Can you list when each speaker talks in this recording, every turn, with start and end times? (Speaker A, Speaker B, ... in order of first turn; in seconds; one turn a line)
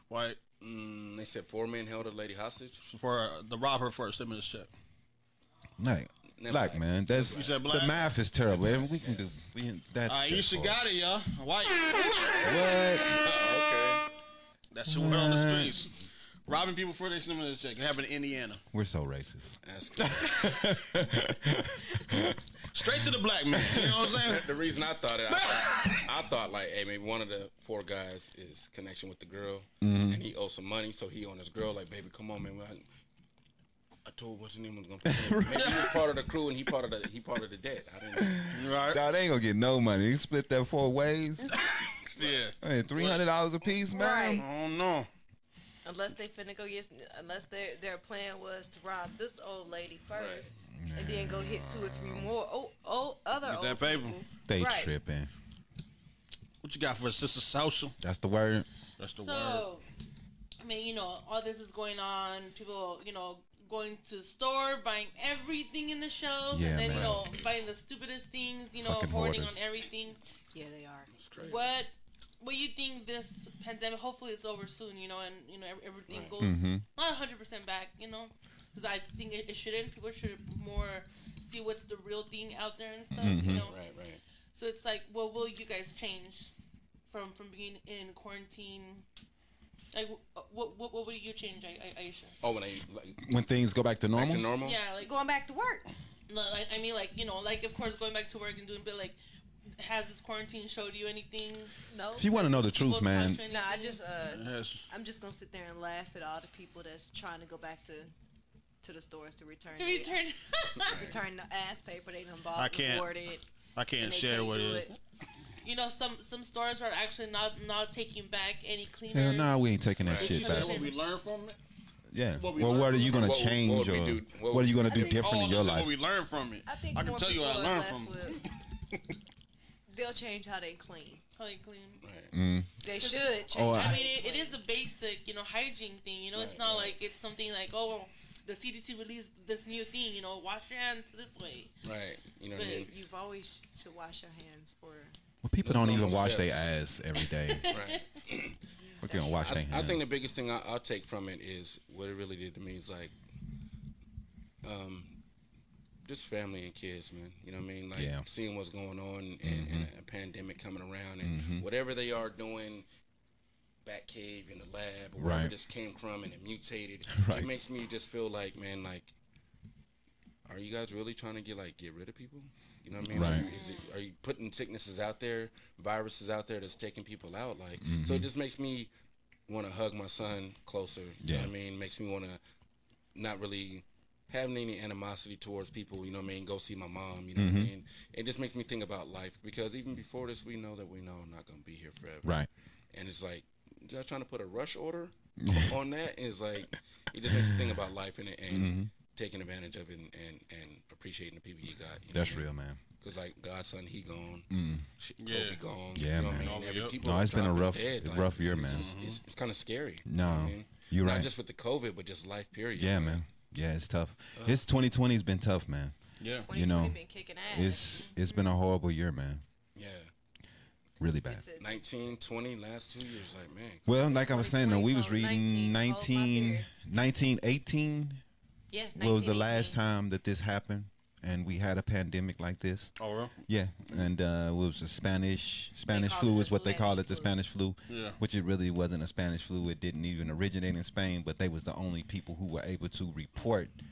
Speaker A: 0.1-0.4
Speaker B: 0.6-2.8
Speaker A: 2.8-4.7
Speaker C: 5.8-10.8
Speaker B: 6.4-7.5
Speaker A: 7.2-8.9
Speaker A: 10.1-12.7
Speaker C: 12.4-13.2
Speaker B: 13.0-14.0
Speaker A: 14.7-15.9
Speaker C: 14.9-15.8
Speaker A: 16.4-18.6
Speaker C: 18.7-23.1
Speaker B: 19.6-20.7
Speaker A: 22.7-24.5
Speaker C: 23.6-24.1
Speaker B: 23.8-32.8
Speaker A: 25.3-26.0
Speaker C: 29.8-30.2
Speaker B: 34.0-38.5
Speaker C: 35.0-36.0
Speaker A: 35.5-36.0
Speaker C: 38.2-41.5
Speaker A: 38.5-39.0
Speaker A: 41.4-43.2
Speaker B: 42.1-42.4
Speaker C: 42.6-44.4
Speaker D: 43.9-44.4
Speaker A: 44.3-45.1
Speaker D: 45.8-54.9
Speaker B: 50.1-50.5
Speaker C: 50.8-52.3
Speaker A: 53.4-54.2
Speaker C: 54.5-55.3
Speaker A: 56.6-57.9
Speaker C: 58.0-58.7
Speaker A: 59.0-59.7
Speaker E: 59.2-59.9
Speaker E: 60.6-70.2
Speaker C: 66.5-67.3
Speaker C: 68.8-69.6
Speaker D: 70.5-71.1
Speaker B: 71.1-71.8
Speaker E: 71.4-83.8
Speaker B: 76.1-76.4
Speaker C: 76.4-76.8
Speaker C: 83.1-83.7
Speaker B: 83.4-84.2
Speaker E: 84.5-86.5
Speaker E: 87.1-89.0
Speaker E: 89.9-92.4
Speaker B: 92.4-93.2
Speaker C: 93.2-94.5
Speaker B: 94.1-94.8
Speaker E: 94.6-95.1
Speaker D: 95.0-95.9
Speaker E: 96.3-99.2
Speaker E: 99.8-101.7
Speaker D: 101.9-102.4
Speaker C: 102.2-103.4
Speaker E: 102.3-104.0
Speaker D: 103.4-108.1
Speaker A: 104.3-104.8
Speaker D: 108.8-110.2
Speaker E: 109.8-111.0
Speaker D: 110.8-113.5
Speaker B: 110.8-111.2
Speaker A: 112.5-113.1
Speaker A: 113.8-115.0
Speaker D: 114.0-114.9
Speaker E: 115.6-119.6
Speaker C: 119.1-120.8
Speaker B: 120.0-120.3
Speaker A: 120.1-121.5
Speaker E: 120.2-120.9
Speaker C: 122.1-125.9
Speaker A: 122.3-123.3
Speaker B: 122.9-125.1
Speaker D: 124.9-125.2
Speaker A: 124.9-129.0
Speaker D: 126.7-128.4
Speaker D: 129.9-131.2
Speaker E: 131.3-132.0
Speaker B: 132.0-132.3
Speaker C: 132.3-132.8
Speaker D: 132.8-134.6
Speaker E: 132.9-141.7
Speaker C: 133.5-134.0
Speaker B: 136.3-137.0
Speaker B: 141.8-142.9
Speaker E: 142.5-142.9
Speaker D: 142.8-145.1
Speaker C: 145.4-147.7
Speaker B: 145.6-146.7
Speaker E: 147.3-148.0
Speaker B: 147.7-148.6
Speaker D: 148.8-149.6
Speaker C: 149.0-150.0
Speaker B: 149.4-153.1
Speaker B: 154.6-155.2
Speaker B: 156.0-162.8
Speaker C: 157.9-158.2
Speaker C: 159.4-159.9
Speaker C: 161.2-161.6
Speaker B: 163.8-169.1
Speaker C: 165.2-165.5
Speaker C: 167.1-167.5
Speaker B: 170.4-178.9
Speaker C: 173.1-173.5
Speaker E: 173.1-173.9
Speaker C: 177.8-178.3
Speaker B: 179.5-182.4
Speaker C: 181.2-181.5
Speaker B: 183.1-192.4
Speaker C: 187.3-187.7
Speaker B: 192.9-202.5
Speaker C: 195.4-195.8
Speaker C: 197.2-197.7
Speaker C: 198.5-198.9
Speaker C: 202.1-202.8
Speaker B: 203.0-213.2
Speaker C: 204.5-204.9
Speaker A: 205.2-205.6
Speaker C: 205.9-208.9
Speaker A: 206.3-207.0
Speaker A: 208.7-209.2
Speaker C: 210.1-211.3
Speaker C: 212.7-215.9
Speaker B: 214.3-214.6
Speaker A: 216.2-216.5
Speaker D: 216.4-218.1
Speaker C: 216.5-219.4
Speaker E: 217.9-218.5
Speaker B: 219.8-220.1
Speaker C: 221.0-221.4
Speaker D: 221.2-221.7
Speaker B: 221.6-223.9
Speaker C: 223.8-228.2
Speaker D: 224.0-226.7
Speaker D: 228.7-229.8
Speaker C: 228.9-232.9
Speaker A: 233.0-233.3
Speaker C: 233.4-243.8
Speaker D: 235.9-237.3
Speaker A: 237.9-238.2